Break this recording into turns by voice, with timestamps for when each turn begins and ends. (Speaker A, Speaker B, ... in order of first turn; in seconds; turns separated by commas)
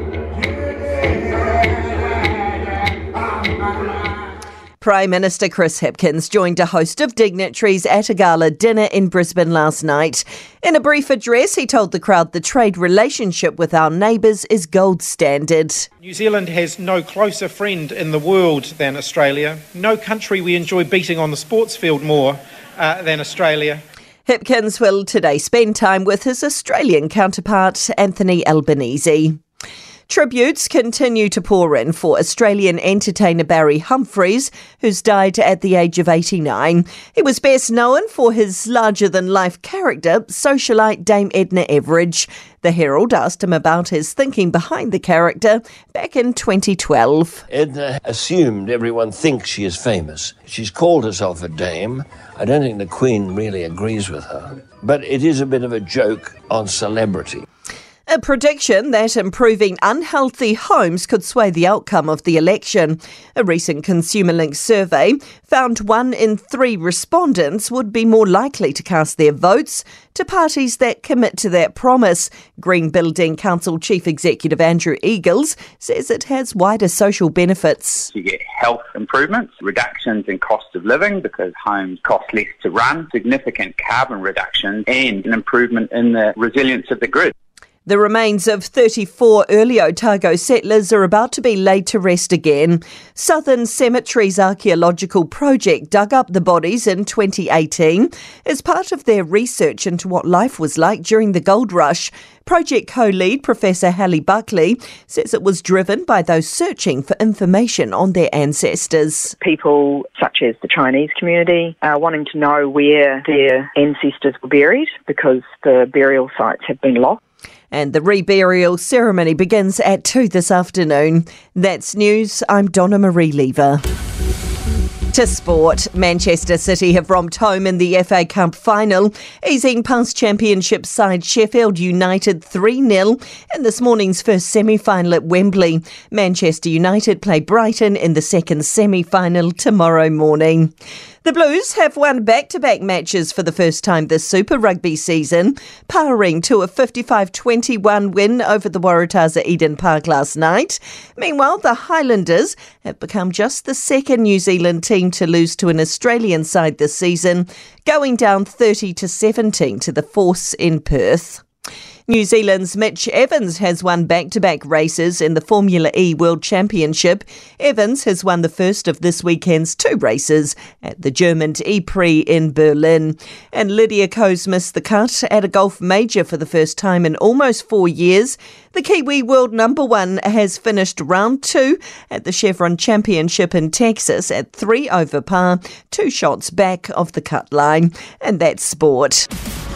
Speaker A: 4.8-15.9, Speaker B: 16.0-23.8, Speaker A: 24.2-29.4, Speaker A: 30.1-47.4, Speaker C: 47.5-57.4, Speaker A: 58.1-78.1, Speaker D: 78.1-87.3, Speaker A: 87.8-109.3, Speaker E: 109.4-117.2, Speaker A: 117.7-123.8, Speaker A: 125.1-140.7, Speaker A: 141.2-161.4, Speaker A: 162.1-189.3